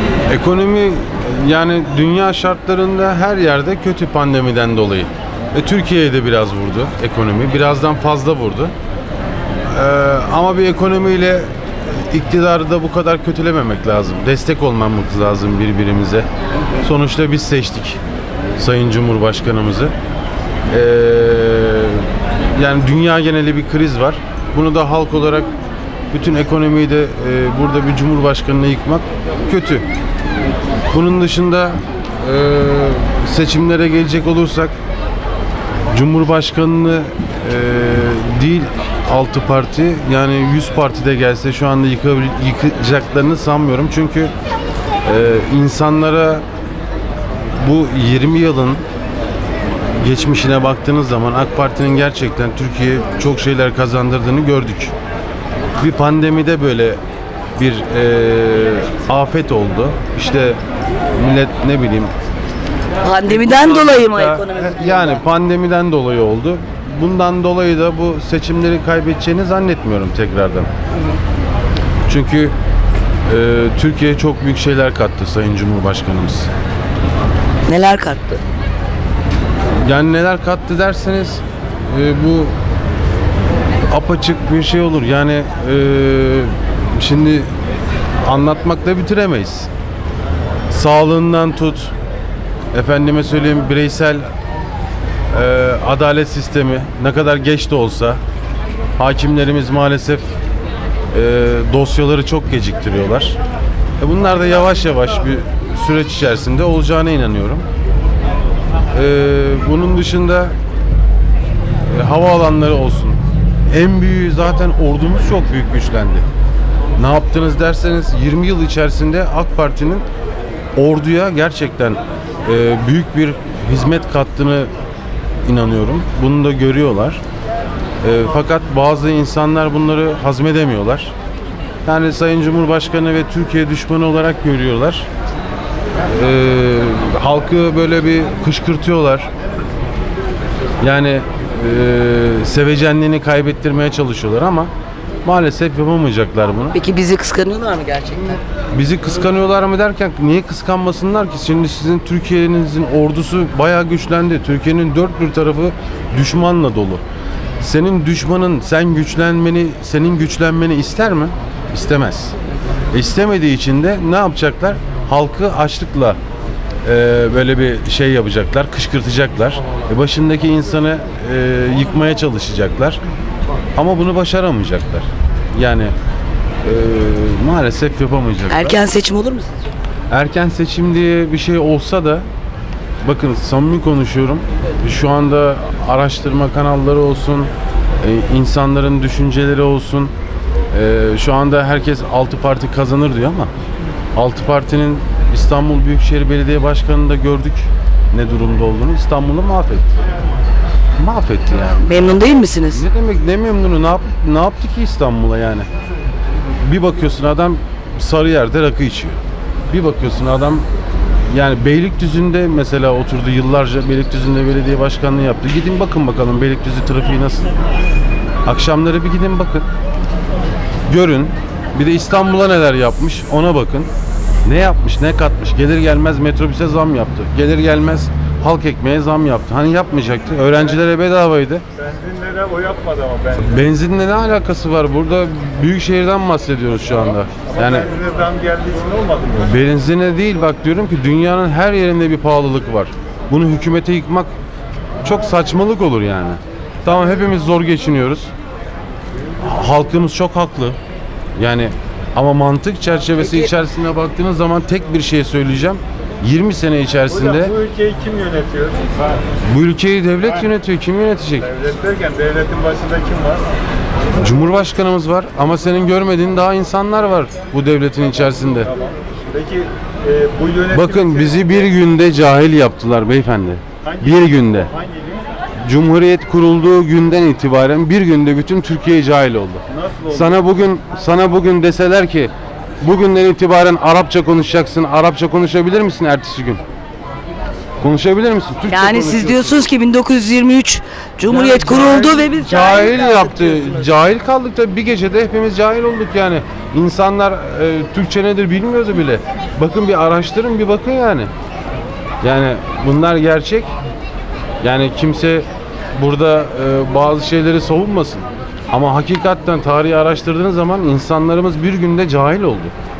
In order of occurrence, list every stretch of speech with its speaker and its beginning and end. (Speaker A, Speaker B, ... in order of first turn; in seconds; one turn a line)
Speaker A: 0.3-8.7
Speaker A: 9.7-16.3
Speaker A: 16.8-18.0
Speaker A: 18.6-19.9
Speaker A: 20.7-25.5
Speaker A: 26.1-29.9
Speaker A: 30.9-34.7
Speaker A: 35.9-44.3
Speaker A: 45.0-46.4
Speaker A: 47.6-48.9
Speaker A: 49.9-54.9
Speaker A: 55.8-57.0
Speaker A: 57.6-60.6
Speaker A: 61.1-62.1
Speaker B: 63.0-65.2
Speaker A: 63.3-70.7
Speaker A: 72.1-72.5
Speaker A: 73.3-76.5
Speaker B: 77.7-78.4
Speaker A: 79.8-82.5
Speaker A: 83.9-87.5
Speaker A: 88.2-89.7
Speaker A: 90.7-91.9
Speaker A: 92.7-94.3
Speaker A: 95.3-98.2
Speaker A: 99.0-100.3
Speaker A: 101.1-103.4
Speaker A: 104.0-107.7
Speaker A: 108.9-110.5
Speaker A: 111.8-116.2
Speaker A: 117.0-120.0
Speaker A: 120.8-124.7
Speaker A: 125.5-127.2
Speaker A: 128.0-131.1
Speaker A: 131.8-135.1
Speaker A: 136.1-139.3
Speaker A: 140.8-144.7
Speaker A: 145.2-146.8
Speaker B: 146.7-148.4
Speaker A: 148.7-157.0
Speaker A: 157.6-162.3
Speaker A: 162.9-166.2
Speaker A: 166.8-173.0
Speaker A: 173.8-175.9
Speaker A: 176.6-178.8
Speaker B: 178.5-179.6
Speaker A: 180.1-182.2
Speaker A: 183.0-190.1
Speaker A: 190.7-193.5
Speaker A: 194.2-199.9
Speaker A: 201.0-202.2
Speaker B: 201.8-202.8
Speaker A: 202.7-205.7
Speaker A: 206.6-209.2
Speaker A: 209.7-210.7
Speaker A: 211.3-217.5
Speaker A: 218.4-219.7
Speaker A: 220.9-223.9
Speaker A: 224.4-231.6
Speaker C: 231.9-233.3
Speaker A: 233.3-238.0
Speaker C: 238.0-239.3
Speaker A: 239.3-244.3
Speaker A: 245.0-248.3
Speaker A: 249.4-250.8
Speaker A: 251.4-257.7
Speaker B: 253.2-253.5
Speaker C: 257.7-258.8
Speaker A: 259.5-261.6
Speaker C: 261.7-263.4
Speaker A: 264.2-268.7
Speaker C: 269.3-270.7
Speaker A: 270.7-274.7
Speaker A: 275.6-286.6
Speaker A: 287.8-289.6
Speaker B: 288.7-293.9
Speaker A: 291.3-301.3
Speaker A: 302.2-303.7
Speaker A: 304.6-312.7